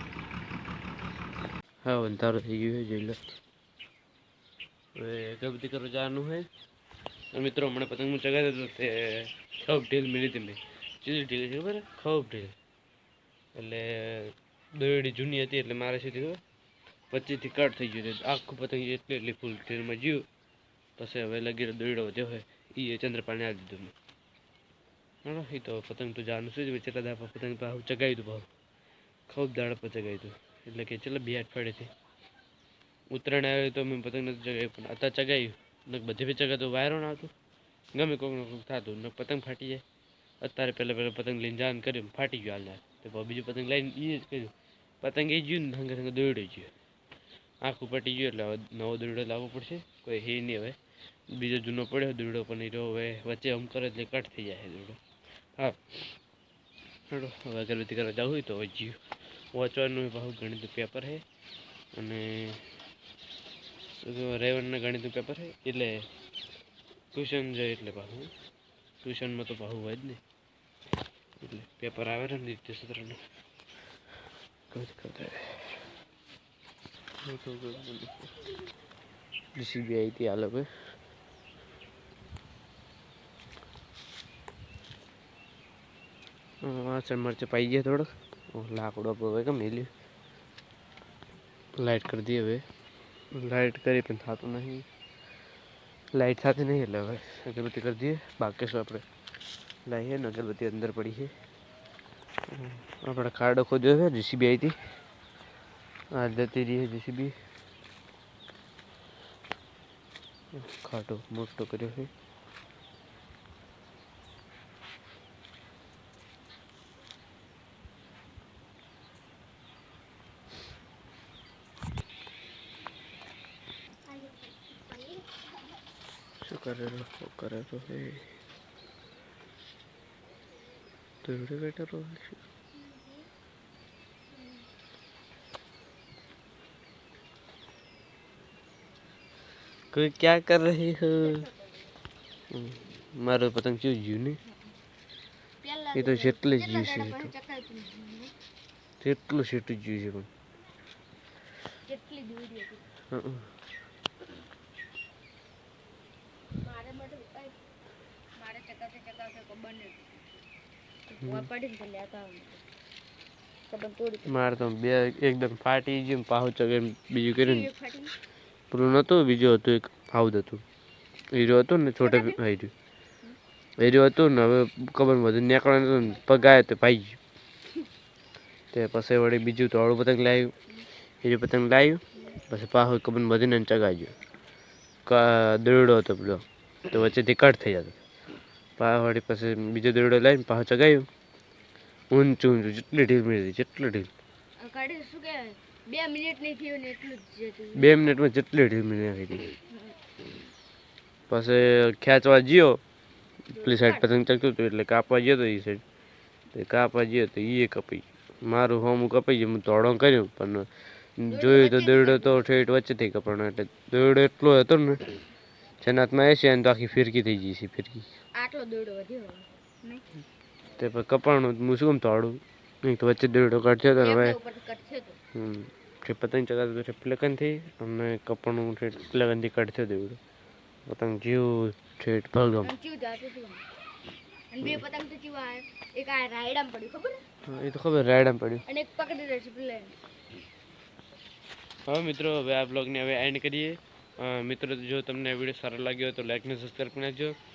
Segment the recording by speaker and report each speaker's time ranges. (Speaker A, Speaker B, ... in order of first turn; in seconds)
Speaker A: 1.8-3.2, 5.0-6.5, 7.3-12.6, 13.6-16.4, 17.1-20.3, 21.0-23.9, 25.2-28.5, 29.3-31.9, 33.1-37.3, 37.9-39.8, 40.4-46.7, 47.6-50.8, 51.3-55.0, 57.1-59.0, 59.5-61.2, 62.0-62.6, 63.9-66.1, 67.1-68.3, 69.0-70.2, 71.4-73.2, 74.7-75.8, 77.2-78.3, 79.6-80.7, 86.6-89.9, 91.8-92.6, 93.3-94.8, 96.1-99.0, 99.9-101.3, 102.5-104.8, 106.1-107.3, 110.5-112.1, 126.4-128.3, 131.2-132.4, 139.9-141.4, 142.5-144.4, 145.9-147.3, 149.0-150.3, 153.1-153.5, 164.3-167.7, 168.7-170.6, 171.3-172.7, 173.8-177.2, 178.7-180.5, 181.2-184.1, 185.1-188.0, 188.8-191.1, 192.1-194.1, 197.8-199.5, 201.3-202.8, 203.5-205.8, 206.5-215.2, 215.8-218.1, 220.8-224.4, 225.3-230.2, 230.9-232.7, 237.4-238.7, 241.9-247.4
Speaker B: 141.1-141.9, 144.4-144.8, 145.6-148.3, 151.9-152.8, 156.6-157.6, 158.4-160.3, 161.1-162.6, 163.7-164.3, 167.4-168.2, 172.0-172.4, 194.6-198.0, 199.7-200.0, 203.5-204.2, 211.3-212.5, 218.3-220.1, 224.0-225.2, 232.6-233.6, 234.5-237.2, 238.7-240.0